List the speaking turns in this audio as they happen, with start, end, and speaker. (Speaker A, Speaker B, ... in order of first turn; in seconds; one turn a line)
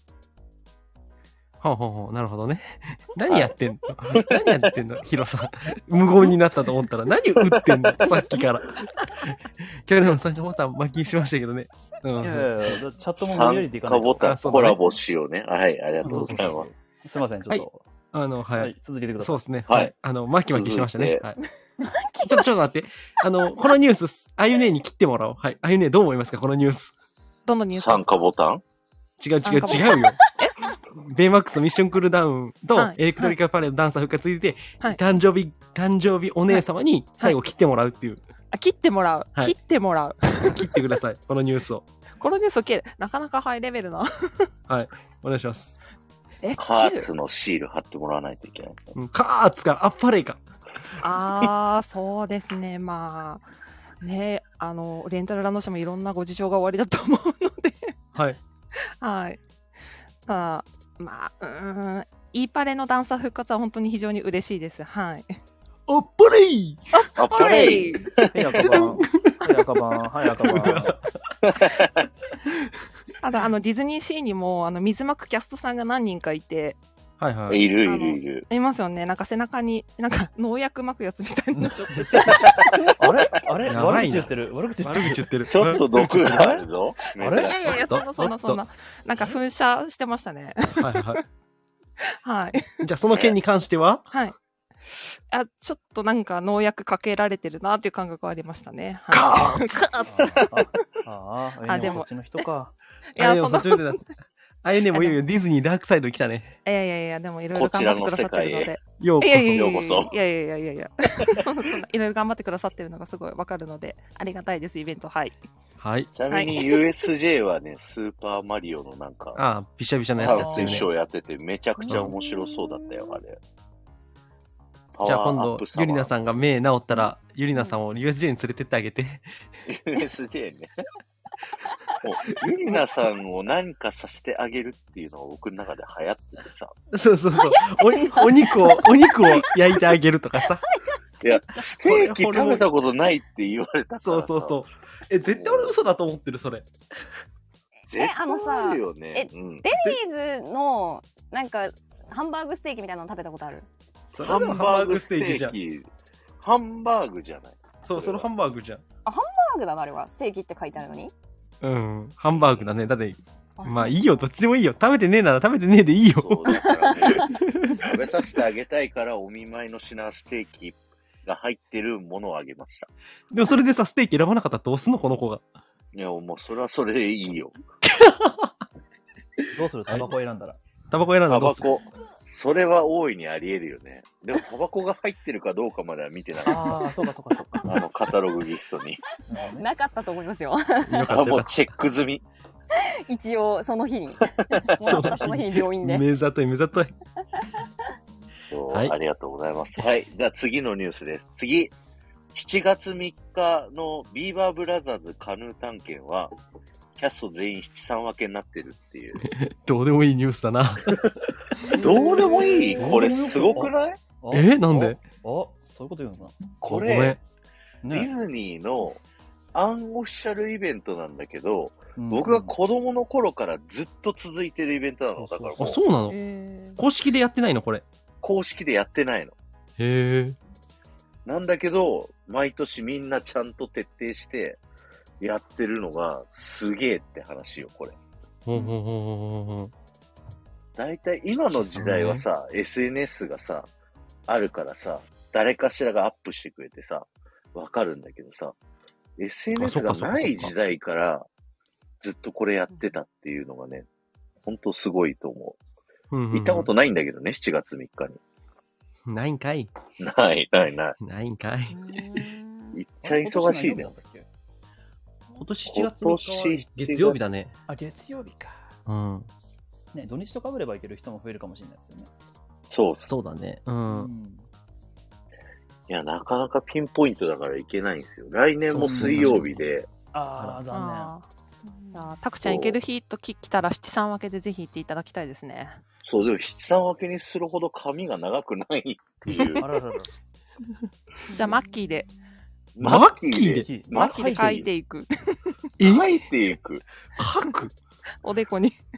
Speaker A: 1.6-12.8
Speaker B: 3.3-3.5
Speaker B: 4.1-4.4
Speaker B: 7.4-8.2
Speaker C: 12.2-14.2
Speaker B: 13.2-16.7
Speaker A: 14.2-14.8
Speaker C: 16.0-17.9
Speaker A: 16.1-16.4
Speaker A: 17.5-21.4
Speaker C: 18.6-19.5
Speaker B: 20.5-21.2
Speaker D: 21.8-22.5
Speaker A: 22.2-26.9
Speaker E: 27.5-28.1
Speaker B: 27.7-28.6
Speaker A: 29.2-30.2
Speaker E: 29.4-30.5
Speaker D: 29.7-30.2
Speaker A: 30.9-38.2
Speaker E: 32.7-33.4
Speaker E: 38.5-41.0
Speaker A: 40.4-41.9
Speaker E: 42.2-44.5
Speaker A: 44.7-45.8
Speaker E: 46.4-47.1
Speaker B: 46.6-48.9
Speaker A: 49.0-50.4
Speaker E: 51.0-53.5
Speaker E: 54.0-57.9
Speaker E: 59.0-59.4
Speaker E: 60.3-65.3
Speaker A: 65.9-66.8
Speaker E: 66.9-68.1
Speaker B: 67.2-68.9
Speaker C: 68.3-71.0
Speaker A: 68.6-71.1
Speaker B: 71.5-71.9
Speaker E: 73.2-76.8
Speaker A: 77.2-77.6
Speaker B: 77.5-78.5
Speaker E: 77.8-82.8
Speaker B: 82.3-82.7
Speaker C: 82.8-85.3
Speaker A: 83.7-86.6
Speaker B: 85.5-87.9
Speaker C: 86.3-86.5
Speaker C: 87.2-87.6
Speaker E: 87.3-91.2
Speaker A: 87.7-88.6
Speaker A: 90.8-91.2
Speaker E: 92.1-92.8
Speaker A: 92.8-94.1
Speaker E: 94.9-100.8
Speaker A: 99.1-99.9
Speaker C: 100.1-102.8
Speaker E: 101.7-102.1
Speaker E: 103.2-104.0
Speaker A: 103.2-104.0
Speaker A: 104.6-106.6
Speaker E: 104.9-105.2
Speaker E: 106.7-115.4
Speaker B: 107.5-108.7
Speaker A: 109.0-109.8
Speaker B: 109.5-110.1
Speaker A: 115.8-116.1
Speaker B: 116.2-119.4
Speaker E: 116.3-116.8
Speaker A: 119.4-120.9
Speaker B: 120.2-123.4
Speaker C: 120.2-120.8
Speaker D: 121.8-123.2
Speaker A: 121.9-122.1
Speaker B: 124.9-126.1
Speaker A: 125.0-129.2
Speaker B: 129.7-130.7
Speaker B: 132.0-136.7
Speaker A: 136.9-140.7
Speaker D: 137.3-139.9
Speaker B: 141.2-144.6
Speaker A: 141.8-142.7
Speaker A: 144.0-146.7
Speaker B: 145.3-145.8
Speaker D: 147.9-153.7
Speaker B: 147.9-149.6
Speaker A: 154.1-155.6
Speaker B: 154.2-155.9
Speaker B: 156.4-158.3
Speaker A: 157.8-158.8
Speaker D: 159.1-161.1
Speaker A: 161.6-167.9
Speaker B: 162.3-162.7
Speaker D: 163.6-164.3
Speaker B: 166.2-172.9
Speaker D: 166.5-167.3
Speaker A: 173.3-175.4
Speaker B: 175.9-177.6
Speaker A: 177.8-178.5
Speaker C: 179.5-180.6
Speaker A: 180.9-181.7
Speaker B: 181.3-186.9
Speaker C: 186.4-187.8
Speaker B: 187.5-189.0
Speaker C: 189.3-189.7
Speaker D: 189.3-191.2
Speaker A: 190.8-191.6
Speaker B: 191.1-192.2
Speaker D: 192.7-196.1
Speaker B: 194.5-195.1
Speaker A: 194.8-196.9
Speaker B: 198.5-201.7
Speaker A: 198.7-199.0
Speaker B: 202.3-206.3
Speaker B: 207.0-209.2
Speaker A: 209.2-211.1
Speaker B: 211.7-214.0
Speaker D: 211.7-213.1
Speaker C: 212.8-216.5
Speaker A: 214.3-215.0
Speaker B: 216.6-217.2
Speaker A: 216.7-217.2
Speaker C: 217.8-218.1
Speaker B: 217.9-219.0
Speaker B: 219.5-225.8
Speaker C: 222.0-222.5
Speaker C: 225.2-225.7
Speaker A: 225.6-226.2
Speaker D: 226.1-226.8
Speaker A: 226.8-227.8
Speaker B: 228.2-229.3
Speaker A: 229.8-230.4
Speaker B: 231.2-234.6
Speaker B: 235.2-237.9
Speaker A: 238.5-239.7
Speaker B: 240.8-243.7
Speaker A: 241.5-242.2
Speaker B: 244.3-248.6
Speaker B: 249.2-251.3
Speaker A: 249.6-250.5
Speaker B: 252.0-253.9
Speaker B: 254.4-255.6
Speaker A: 256.1-256.7
Speaker B: 256.3-258.2
Speaker A: 259.1-259.7
Speaker B: 260.0-261.0
Speaker A: 261.0-261.8
Speaker D: 261.7-262.8
Speaker B: 262.7-263.9
Speaker C: 263.0-264.3
Speaker A: 265.4-267.5
Speaker B: 265.7-267.2
Speaker C: 267.7-268.6
Speaker A: 268.9-269.3
Speaker C: 269.9-272.1
Speaker B: 272.7-273.1
Speaker A: 273.1-274.1
Speaker C: 273.9-274.5
Speaker B: 275.9-279.9
Speaker A: 278.7-279.7
Speaker C: 278.8-279.3
Speaker C: 280.1-281.1
Speaker A: 280.4-280.6
Speaker E: 280.7-281.3
Speaker D: 281.6-282.1
Speaker E: 281.9-285.8
Speaker B: 282.4-282.8
Speaker B: 286.1-289.7
Speaker C: 289.6-290.1
Speaker E: 291.3-292.1
Speaker D: 291.3-291.6
Speaker B: 292.8-294.7
Speaker A: 292.8-293.7
Speaker C: 293.6-294.6
Speaker E: 293.9-295.5
Speaker A: 295.8-296.3
Speaker B: 295.8-296.8
Speaker A: 297.2-297.7
Speaker E: 298.2-298.8